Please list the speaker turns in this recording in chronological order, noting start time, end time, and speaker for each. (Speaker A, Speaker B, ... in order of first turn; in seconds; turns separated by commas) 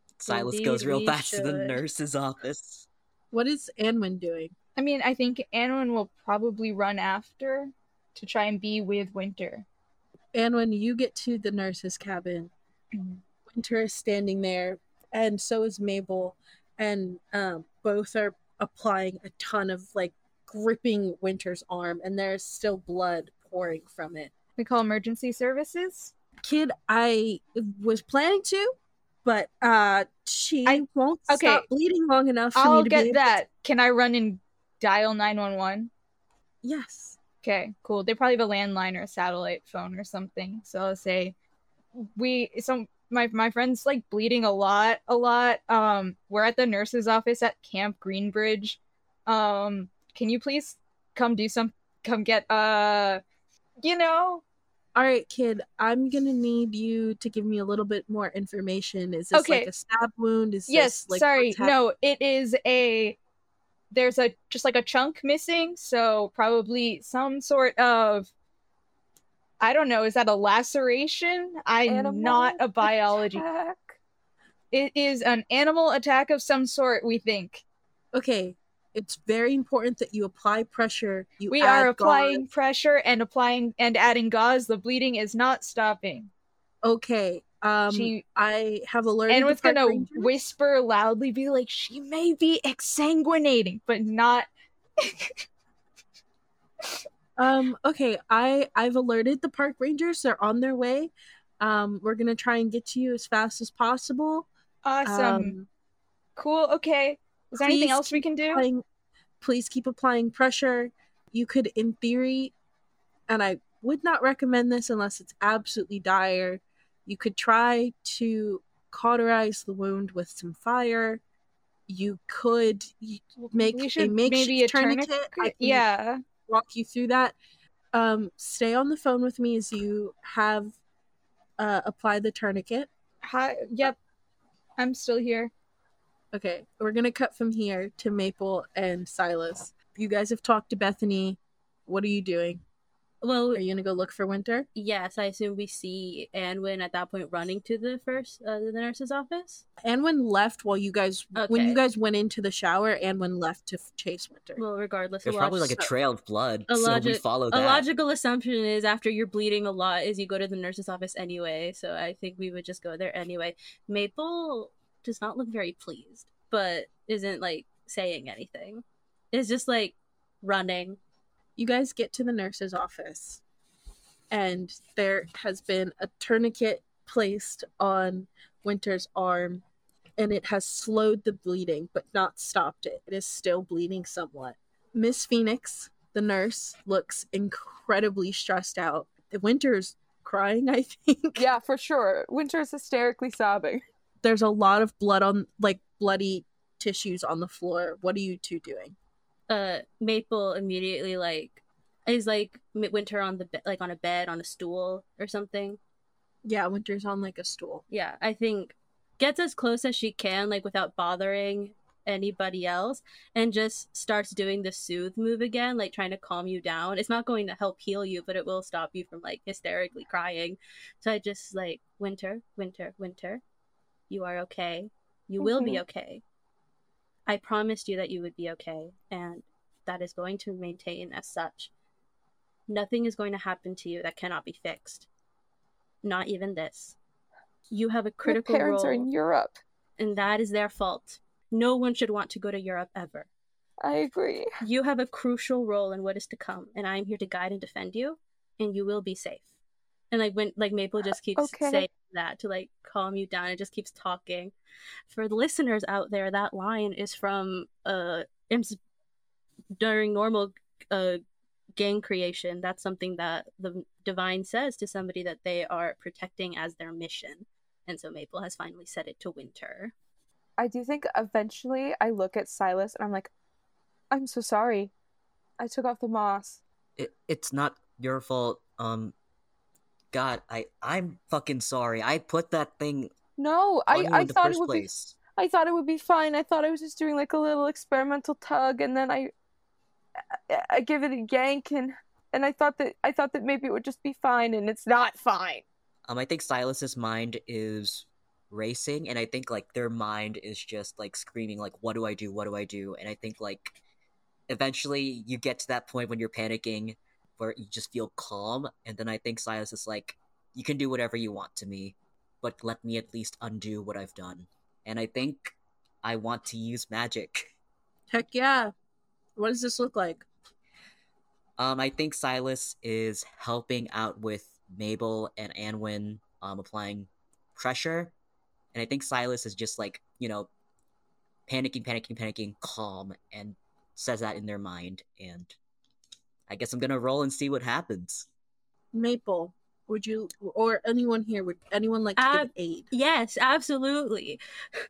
Speaker A: 0.2-2.9, Speaker B: 0.3-1.8, Speaker C: 3.3-4.5, Speaker D: 4.8-9.7, Speaker C: 10.3-12.5, Speaker C: 13.5-24.3, Speaker D: 24.6-26.1, Speaker C: 26.4-33.4, Speaker D: 30.7-31.7, Speaker D: 32.5-35.9, Speaker C: 36.6-37.2, Speaker D: 37.4-41.4, Speaker D: 42.0-53.2, Speaker D: 53.8-54.4, Speaker C: 55.0-61.8, Speaker D: 59.3-59.7, Speaker D: 60.7-63.2, Speaker D: 63.9-68.3, Speaker D: 69.6-73.4, Speaker E: 71.9-74.0, Speaker D: 74.7-77.6, Speaker C: 78.1-82.4, Speaker D: 81.5-86.3, Speaker C: 86.8-90.3, Speaker D: 87.9-88.2, Speaker D: 89.3-94.5, Speaker D: 95.0-95.4, Speaker C: 97.4-104.5, Speaker D: 104.8-105.5, Speaker C: 105.0-105.7, Speaker D: 106.4-108.7, Speaker C: 107.5-108.8, Speaker C: 109.4-112.5, Speaker C: 113.3-121.2, Speaker C: 121.9-125.9, Speaker D: 123.4-126.2, Speaker C: 126.5-127.4, Speaker C: 127.9-130.8, Speaker C: 131.6-132.9, Speaker D: 133.2-134.0, Speaker D: 134.8-135.5, Speaker C: 136.3-142.6, Speaker B: 143.2-143.6, Speaker C: 143.5-144.7, Speaker B: 144.8-149.7, Speaker C: 149.8-154.6, Speaker B: 151.3-151.8, Speaker B: 154.6-155.9, Speaker A: 155.2-157.9, Speaker B: 156.7-171.0, Speaker C: 171.6-173.4, Speaker C: 174.3-179.6, Speaker C: 180.2-191.5, Speaker E: 191.4-193.8, Speaker C: 194.2-198.9, Speaker B: 199.5-205.8, Speaker C: 206.4-207.8, Speaker B: 207.9-223.4, Speaker B: 224.1-226.2, Speaker E: 225.4-225.8, Speaker B: 227.3-231.7, Speaker B: 232.7-235.1, Speaker B: 236.0-237.0, Speaker B: 237.7-239.1, Speaker E: 238.2-239.6, Speaker B: 240.0-243.3, Speaker E: 243.8-244.5, Speaker B: 244.6-249.5, Speaker B: 250.1-254.5, Speaker E: 251.4-251.9, Speaker B: 255.1-258.8, Speaker B: 259.8-261.2, Speaker B: 261.8-269.9, Speaker E: 270.6-273.3, Speaker E: 274.1-274.9, Speaker E: 275.6-276.6, Speaker A: 277.0-279.1, Speaker A: 280.1-283.1, Speaker E: 283.4-289.3, Speaker A: 283.9-285.2, Speaker E: 290.5-295.6, Speaker A: 296.1-303.8, Speaker A: 304.5-317.5, Speaker C: 318.1-318.7, Speaker C: 319.4-320.2, Speaker A: 321.6-328.1, Speaker A: 328.7-330.5, Speaker A: 331.5-335.6, Speaker A: 336.5-338.3, Speaker C: 338.9-342.9, Speaker B: 342.2-344.4